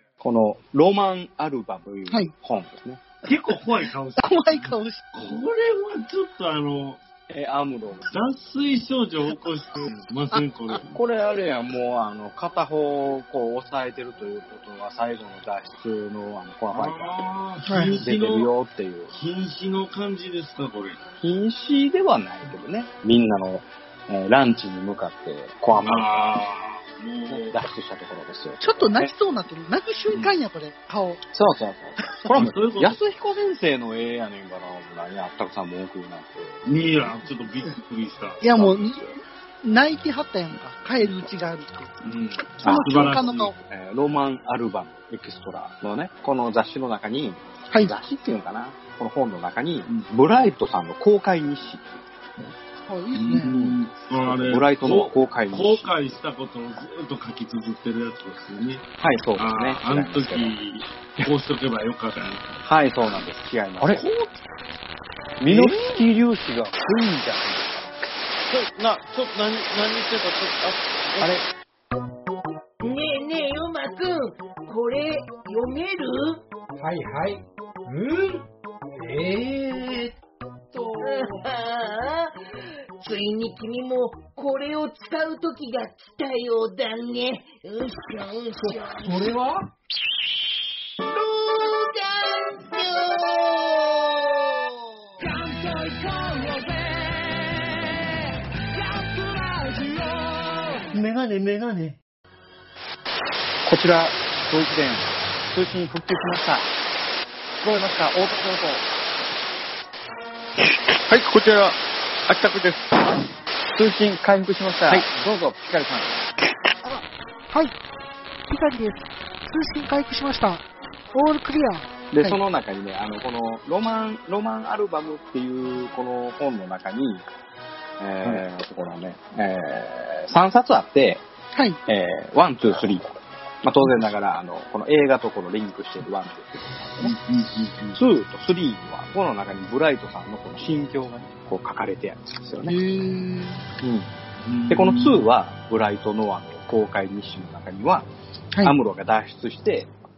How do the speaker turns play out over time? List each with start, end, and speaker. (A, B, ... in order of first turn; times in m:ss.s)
0:00.2-0:03.0 A
0:03.2-0:07.0 B
0:04.2-0:05.0 C
0:07.3-0:08.1 A
0:08.1-0:11.0 B
0:10.9-0:17.4 A
0:16.7-0:18.5 B
0:17.6-0:18.0 C
0:18.0-0:19.1 A
0:19.1-0:21.0 B
0:21.2-0:26.4 A
0:25.7-0:27.6 B
0:27.3-0:29.1 A
0:28.6-0:31.2 C
0:31.3-0:36.6 A
0:32.3-0:33.0 B
0:36.6-0:38.8 B
0:38.4-0:39.0 C
0:39.6-0:41.9 C
0:42.0-0:43.6 B
0:42.6-0:43.5 C
0:42.6-0:52.0 A
0:47.7-0:48.0 C
0:52.8-0:53.5 C
0:53.1-1:02.6 B
0:53.5-0:56.1 A
0:59.0-1:00.5 A
1:02.6-1:04.1 A
1:03.8-1:04.1 B
1:05.4-1:07.9 A
1:05.5-1:05.8 B
1:08.5-1:10.7 D
1:12.8-1:16.4 E
1:16.8-1:20.1 F
1:20.7-1:22.3 E
1:21.0-1:21.3 F
1:23.0-1:29.4 E
1:28.6-1:29.7 F
1:31.0-1:38.2 E
1:38.7-1:40.8 E
1:40.9-1:42.0 F
1:43.6-1:46.7 A
1:47.6-1:48.8 A
1:51.1-1:51.8 A
1:52.3-1:52.9 A
1:53.7-1:56.3 A
1:56.8-1:57.7 C
1:58.5-2:02.4 C
2:02.1-2:07.3 A
2:08.0-2:11.2 A
2:11.5-2:11.8 C
2:11.9-2:13.1 A
2:13.6-2:17.1 A
2:17.0-2:18.0 B
2:17.9-2:22.8 A
2:22.7-2:23.6 C
2:23.8-2:24.1 A
2:24.4-2:25.3 B
2:24.7-2:28.1 A
2:28.6-2:29.9 A